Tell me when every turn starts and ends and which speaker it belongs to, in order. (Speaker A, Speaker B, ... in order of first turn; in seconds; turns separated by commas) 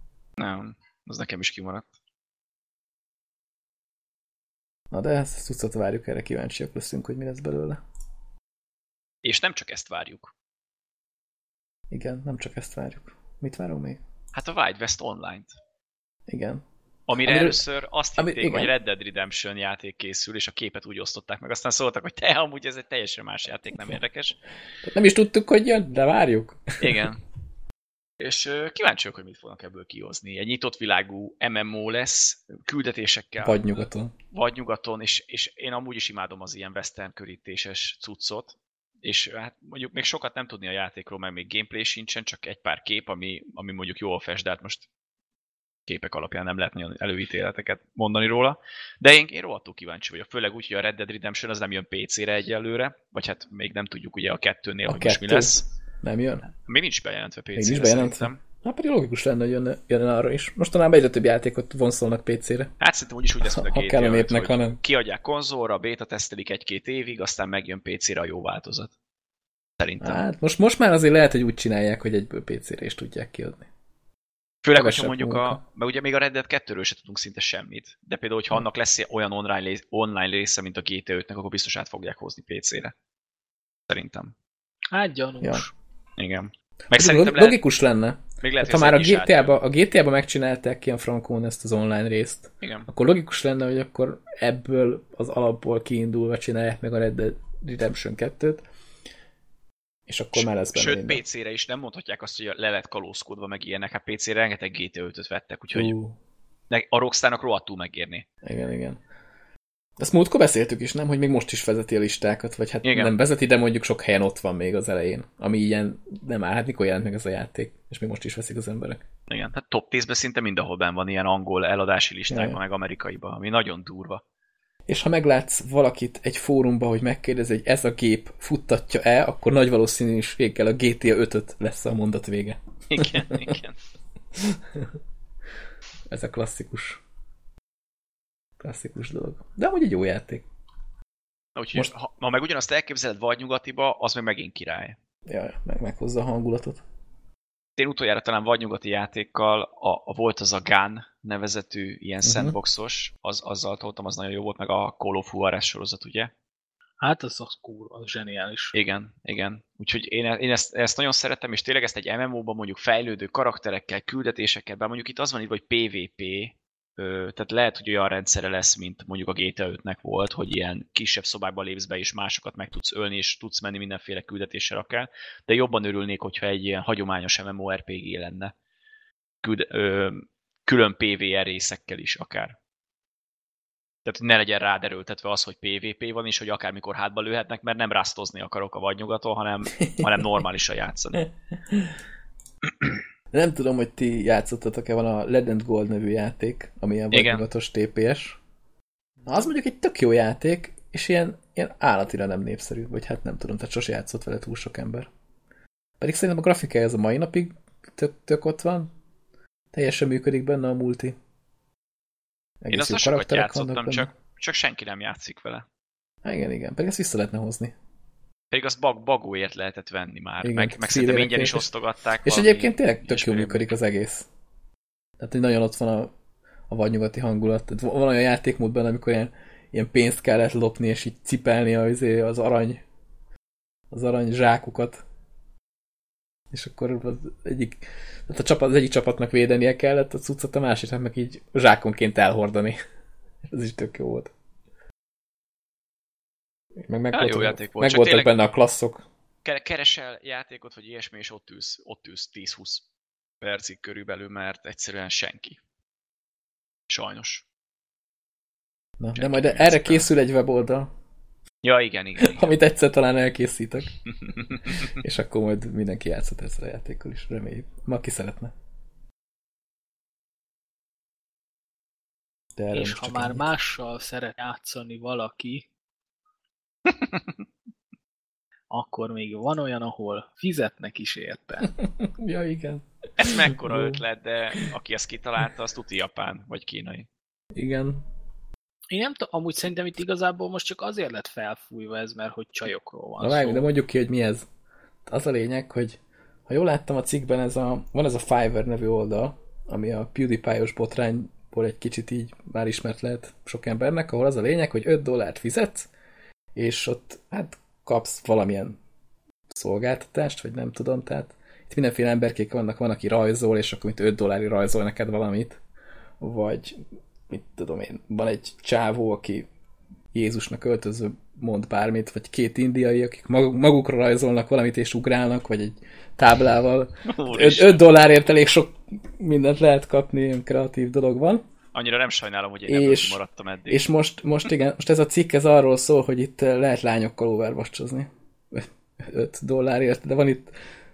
Speaker A: 0.4-1.9, Speaker B: 4.9-7.8, Speaker A: 9.2-10.3, Speaker B: 11.9-14.0, Speaker A: 14.3-15.5, Speaker B: 16.3-16.6, Speaker A: 17.1-24.4, Speaker B: 17.2-17.6, Speaker B: 18.2-18.7, Speaker B: 24.8-27.1, Speaker A: 26.8-27.2, Speaker A: 28.2-33.6, Speaker B: 33.4-34.1, Speaker A: 34.3-44.9, Speaker A: 45.9-55.6, Speaker B: 54.9-56.4, Speaker A: 56.5-58.4, Speaker B: 57.5-62.7, Speaker A: 62.8-68.9, Speaker B: 63.4-64.8, Speaker A: 69.8-70.2, Speaker B: 70.0-73.7, Speaker A: 74.6-82.9, Speaker B: 74.7-75.6, Speaker A: 83.9-84.3, Speaker C: 84.9-85.7, Speaker A: 86.2-87.6, Speaker B: 86.9-98.6, Speaker A: 88.4-89.5, Speaker A: 92.6-92.9, Speaker B: 100.1-101.2, Speaker A: 100.3-105.9, Speaker B: 105.7-106.2, Speaker A: 106.7-108.2, Speaker B: 108.4-109.0, Speaker B: 110.0-119.0, Speaker A: 112.8-113.1, Speaker A: 119.3-124.2, Speaker B: 122.3-122.6, Speaker B: 124.9-133.6, Speaker A: 132.9-133.8, Speaker B: 134.3-134.9, Speaker B: 136.1-137.0, Speaker B: 138.6-140.4, Speaker A: 141.5-144.9, Speaker B: 145.2-146.8, Speaker A: 147.8-156.3, Speaker B: 152.2-152.6, Speaker C: 157.0-158.7, Speaker A: 158.7-178.5, Speaker A: 179.4-182.6, Speaker A: 184.0-191.2, Speaker B: 189.8-190.2, Speaker B: 193.3-198.4, Speaker A: 197.1-197.4, Speaker B: 199.2-205.1, Speaker B: 206.0-208.9, Speaker B: 209.7-211.2, Speaker B: 212.6-214.1, Speaker A: 212.7-215.6, Speaker B: 216.2-217.7, Speaker A: 218.5-223.6, Speaker B: 220.4-221.7, Speaker B: 222.2-224.3, Speaker B: 225.2-226.1, Speaker B: 226.7-232.8, Speaker B: 233.9-235.0, Speaker B: 236.5-242.8, Speaker B: 243.5-244.3, Speaker B: 246.8-249.0, Speaker A: 247.1-248.3, Speaker A: 249.4-252.8, Speaker A: 253.4-255.6, Speaker A: 256.9-257.4, Speaker B: 259.0-260.9, Speaker A: 259.1-260.1, Speaker A: 261.6-262.5, Speaker B: 262.2-264.0, Speaker A: 264.2-264.9, Speaker B: 264.7-268.5, Speaker B: 272.6-273.4, Speaker C: 272.7-275.7, Speaker A: 276.9-277.3, Speaker C: 278.7-281.7, Speaker B: 281.8-284.0, Speaker A: 283.2-287.1, Speaker B: 287.5-288.0, Speaker C: 288.9-293.7, Speaker B: 293.2-294.5, Speaker B: 295.1-305.9, Speaker B: 306.5-308.8, Speaker B: 309.5-315.6, Speaker B: 316.2-316.8, Speaker B: 317.3-319.5, Speaker B: 320.1-331.4, Speaker A: 327.1-327.8, Speaker A: 331.7-333.8, Speaker B: 332.7-340.5